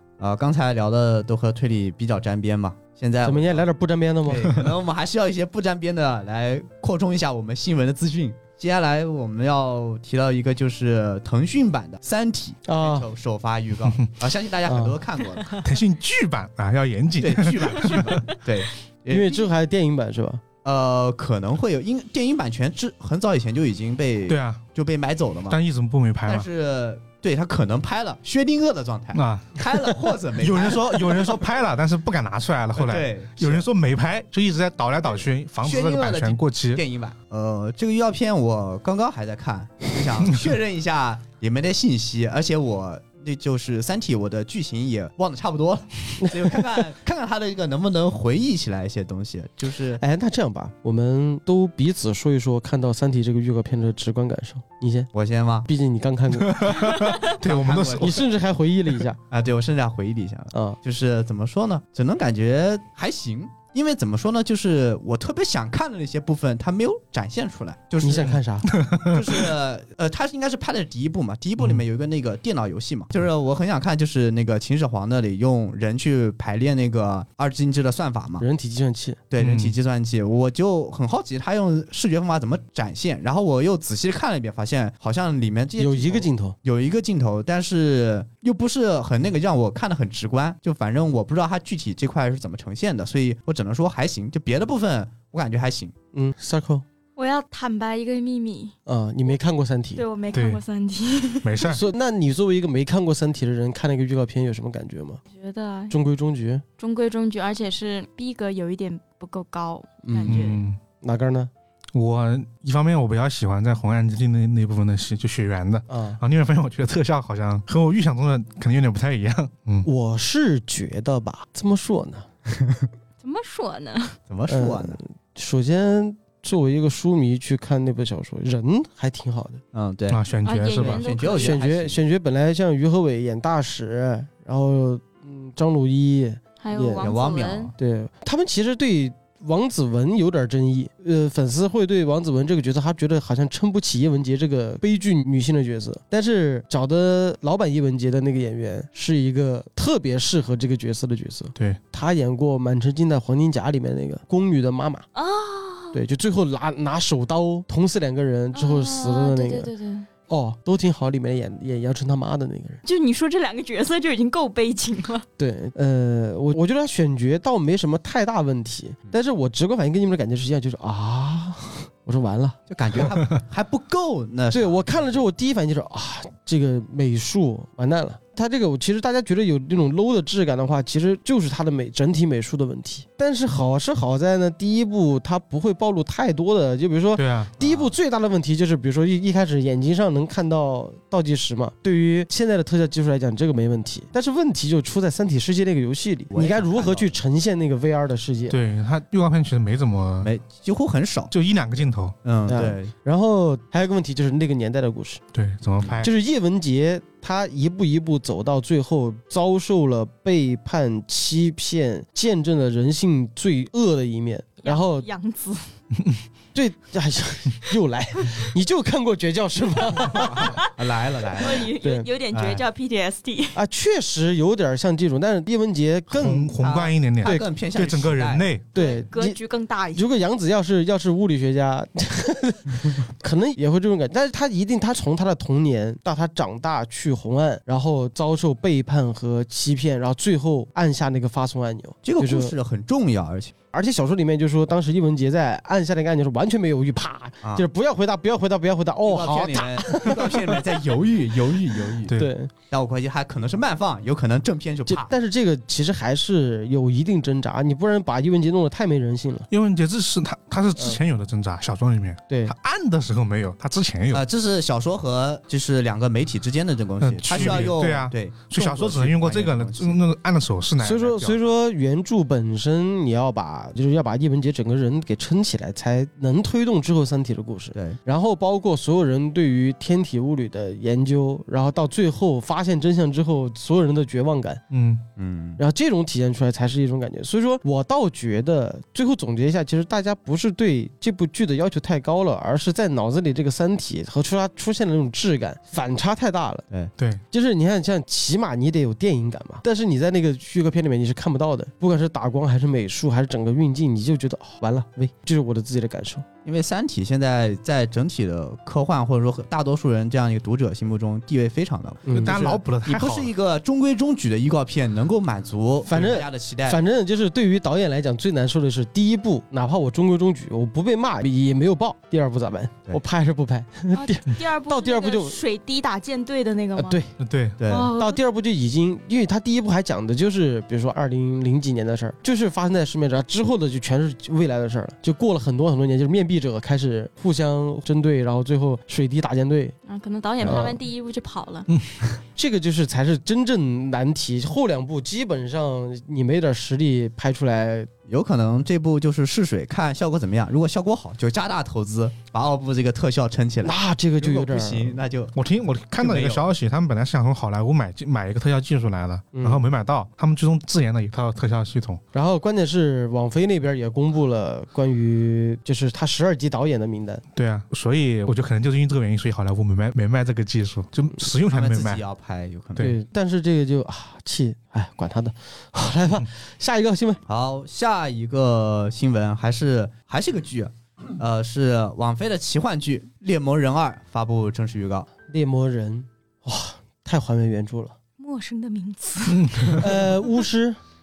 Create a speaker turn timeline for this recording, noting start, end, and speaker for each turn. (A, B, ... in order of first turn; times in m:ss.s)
0:00.2-0:03.6 A
0:03.2-0:04.6 B
0:04.2-0:15.6 A
0:12.7-0:13.1 B
0:14.6-0:15.0 B
0:15.6-0:18.2 C
0:17.2-0:19.5 A
0:19.1-0:20.4 B
0:20.6-0:25.6 A
0:24.3-0:24.6 C
0:25.5-0:26.5 C
0:26.2-0:31.3 A
0:29.1-0:36.8 C
0:32.7-0:33.7 A
0:35.2-0:50.0 A
0:46.2-0:46.8 B
0:50.0-0:55.1 B
0:55.1-0:55.7 A
0:55.7-0:56.6 B
0:56.4-0:58.2 C
0:57.2-0:58.3 A
0:58.0-0:59.2 B
0:59.3-1:08.4 A
1:00.5-1:00.8 B
1:08.0-1:08.7 B
1:08.7-1:09.5 C
1:09.1-1:18.4 A
1:11.6-1:11.8 C
1:18.4-1:19.2 B
1:19.3-1:35.9 A
1:19.4-1:19.8 C
1:25.8-1:26.5 B
1:36.1-1:36.8 B
1:37.2-1:38.7 D
1:38.8-1:40.0 B
1:40.0-1:41.6 D
1:40.3-1:40.6 C
1:41.4-1:41.8 C
1:41.7-1:45.2 B
1:45.3-1:46.0 D
1:45.9-1:46.6 B
1:46.8-1:50.6 D
1:50.0-1:51.5 B
1:50.2-1:50.8 C
1:51.9-1:59.9 C
1:55.9-1:56.2 B
1:59.8-2:02.3 B
2:02.5-2:02.9 A
2:03.2-2:04.2 D
2:04.3-2:05.0 A
2:04.5-2:09.6 B
2:09.7-2:10.2 A
2:10.1-2:11.1 C
2:10.4-2:11.6 D
2:10.8-2:12.0 A
2:11.4-2:17.1 B
2:16.6-2:17.7 D
2:17.0-2:17.7 A
2:17.8-2:35.0 B
2:35.1-2:36.0 D
2:35.9-2:39.7 B
2:38.5-2:40.1 D
2:40.3-2:42.8 B
2:42.8-2:45.2 D
2:45.4-2:52.6 B
2:52.7-2:55.0 A
2:54.5-3:18.6 B
3:07.2-3:07.5 C
3:07.6-3:07.9 A
3:16.3-3:17.2 A
3:18.5-3:20.3 C
3:20.2-3:21.3 A
3:21.3-3:22.1 C
3:22.2-3:22.9 A
3:22.5-3:25.2 B
3:25.3-3:26.1 C
3:25.8-3:26.1 A
3:26.0-3:35.1 B
3:34.6-3:35.6 D
3:36.5-3:40.6 B
3:40.0-3:41.7 A
3:40.2-3:40.7 D
3:41.4-3:43.6 D
3:41.4-3:42.1 B
3:42.3-3:42.6 A
3:43.5-3:46.5 B
3:46.1-3:48.7 C
3:46.6-3:48.5 A
3:47.2-3:47.5 B
3:48.7-3:49.4 B
3:48.7-3:50.1 D
3:49.9-4:02.5 B
4:02.0-4:03.5 A
4:03.7-4:10.8 B
4:09.0-4:12.1 A
4:12.1-4:12.5 B
4:12.7-4:15.1 A
4:14.9-4:19.5 B
4:19.5-4:24.2 C
4:22.3-4:22.5 B
4:24.1-4:30.0 A
4:27.0-4:31.4 C
4:27.3-4:27.7 B
4:30.8-4:44.6 B
4:44.7-4:45.0 C
4:45.2-4:45.6 A
4:45.6-4:56.6 B
4:57.3-5:06.2 B
5:06.4-5:16.8 A
5:12.0-5:12.6 B
5:12.1-5:13.3 C
5:15.8-5:25.4 B
5:23.9-5:27.0 D
5:26.8-5:27.1 B
5:27.2-5:27.6 C
5:27.6-5:27.9 A
5:27.7-5:28.2 D
5:27.9-5:39.8 B
5:39.8-5:41.7 D
5:40.4-5:40.8 B
5:42.3-5:47.9 B
5:48.1-5:55.4 A
5:53.6-5:55.0 B
5:55.3-6:02.0 C
5:56.0-5:56.5 A
5:59.3-5:59.7 B
6:02.1-6:07.2 B
6:07.3-6:12.0 C
6:11.5-6:13.0 A
6:12.8-6:17.2 B
6:17.3-6:25.1 A
6:25.3-6:28.0 B
6:28.2-6:29.5 D
6:29.3-6:30.0 C
6:29.8-6:30.8 B